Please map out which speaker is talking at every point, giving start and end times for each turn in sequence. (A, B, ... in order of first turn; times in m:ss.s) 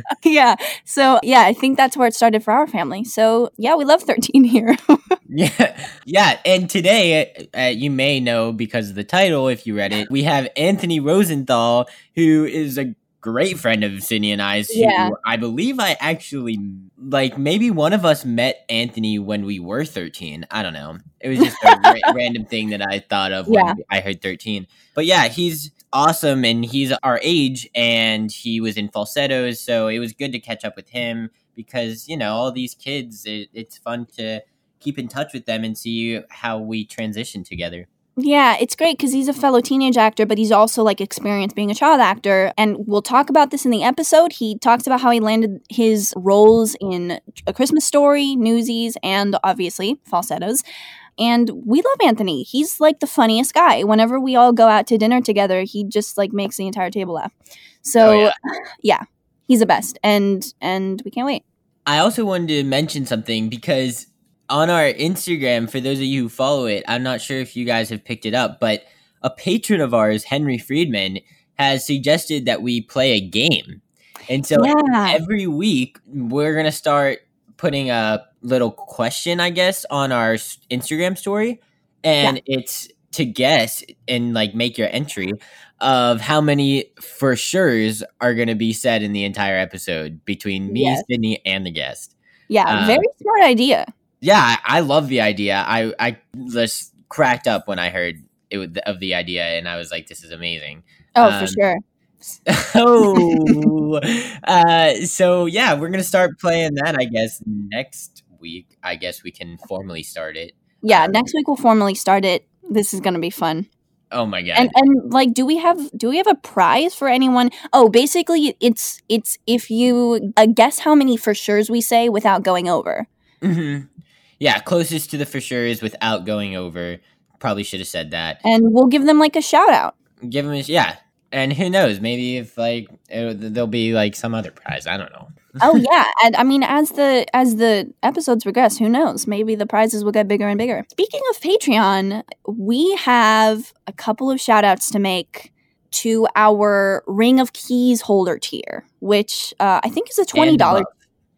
0:00.2-0:05.2 A
0:05.3-0:37.9 B
0:14.7-0:15.2 A
0:21.4-0:22.1 A
0:23.5-0:23.8 A
0:38.2-0:50.6 A
0:51.2-0:57.3 A
0:57.8-1:01.4 A
0:58.0-0:58.3 B
1:01.9-1:32.1 B
1:14.6-1:15.2 A
1:30.7-1:31.1 A
1:32.5-1:33.9 A
1:32.7-1:33.1 B
1:34.2-1:41.6 B
1:41.2-1:41.8 A
1:42.5-1:51.2 B
1:43.2-1:43.5 A
1:50.8-1:53.7 A
1:54.1-1:54.7 B
1:54.6-2:03.1 A
2:03.4-2:03.9 B
2:04.4-2:08.4 B
2:08.4-2:09.9 A
2:10.2-2:15.8 B
2:15.6-2:30.9 A
2:30.3-2:30.9 B